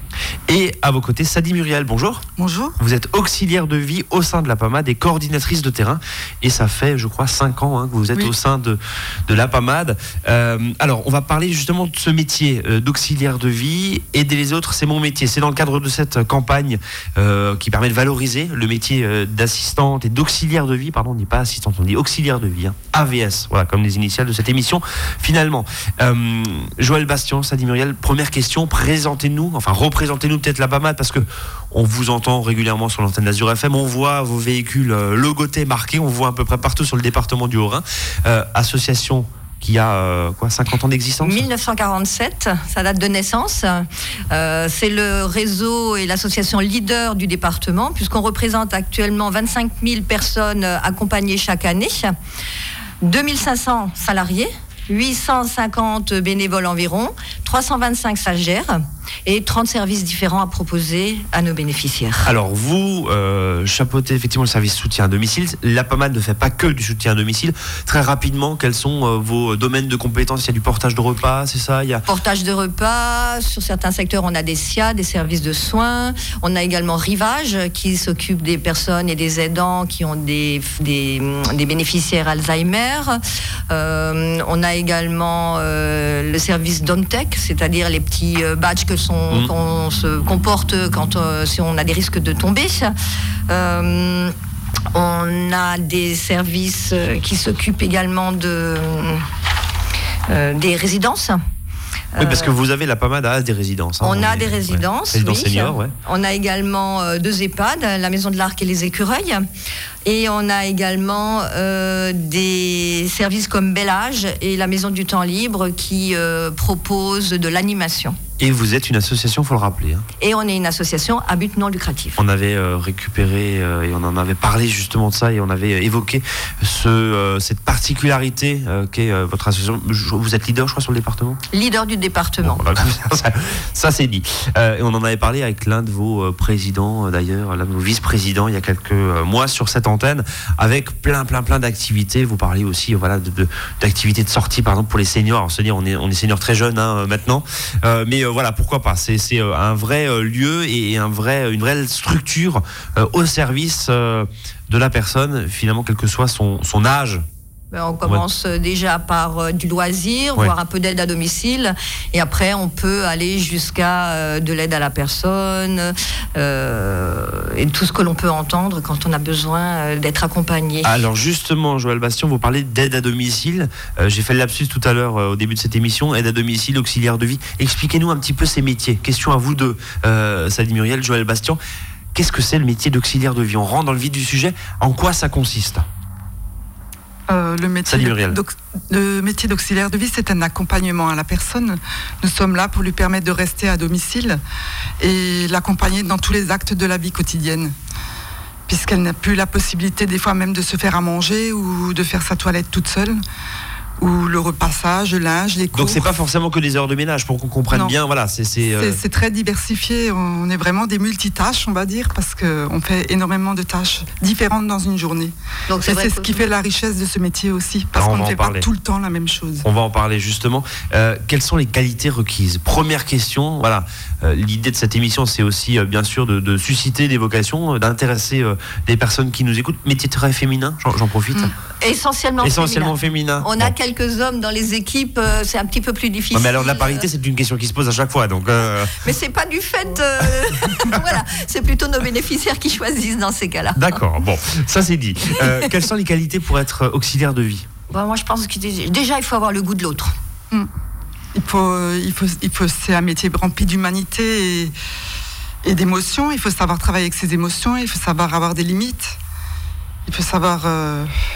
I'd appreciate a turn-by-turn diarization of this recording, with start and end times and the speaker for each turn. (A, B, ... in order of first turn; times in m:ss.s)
0:00.5-0:02.2 A
0:02.4-0:02.8 B
0:02.8-0:41.4 A
0:41.2-0:52.1 C
0:53.0-1:02.3 C
1:02.2-1:12.0 A
1:12.1-1:32.9 C
1:33.5-1:34.3 C
1:34.9-1:39.2 C
1:40.3-1:41.4 C
1:42.2-1:42.5 C
1:42.2-1:45.9 A
1:44.0-1:49.4 C
1:50.0-1:58.2 C
1:58.4-2:00.0 A
2:00.2-2:02.2 C
2:02.2-2:11.4 A
2:11.5-2:12.6 C
2:12.4-2:37.2 A
2:37.7-2:51.0 C
2:50.8-3:01.6 A
3:02.1-3:05.8 A
3:07.3-3:14.4 B
3:07.8-3:08.4 A
3:15.0-3:17.7 B
3:18.7-3:23.2 B
3:24.0-3:26.0 B
3:25.7-3:29.0 A
3:28.7-3:39.6 B
3:35.7-3:36.4 C
3:37.9-3:38.7 A
3:39.6-3:51.5 A
3:51.8-3:57.0 C
3:52.4-3:53.7 A
3:56.3-3:59.0 A
3:59.0-4:04.0 C
4:03.8-4:07.7 A
4:07.9-4:10.1 C
4:11.3-4:14.7 B
4:15.6-4:19.2 B
4:20.0-4:21.1 B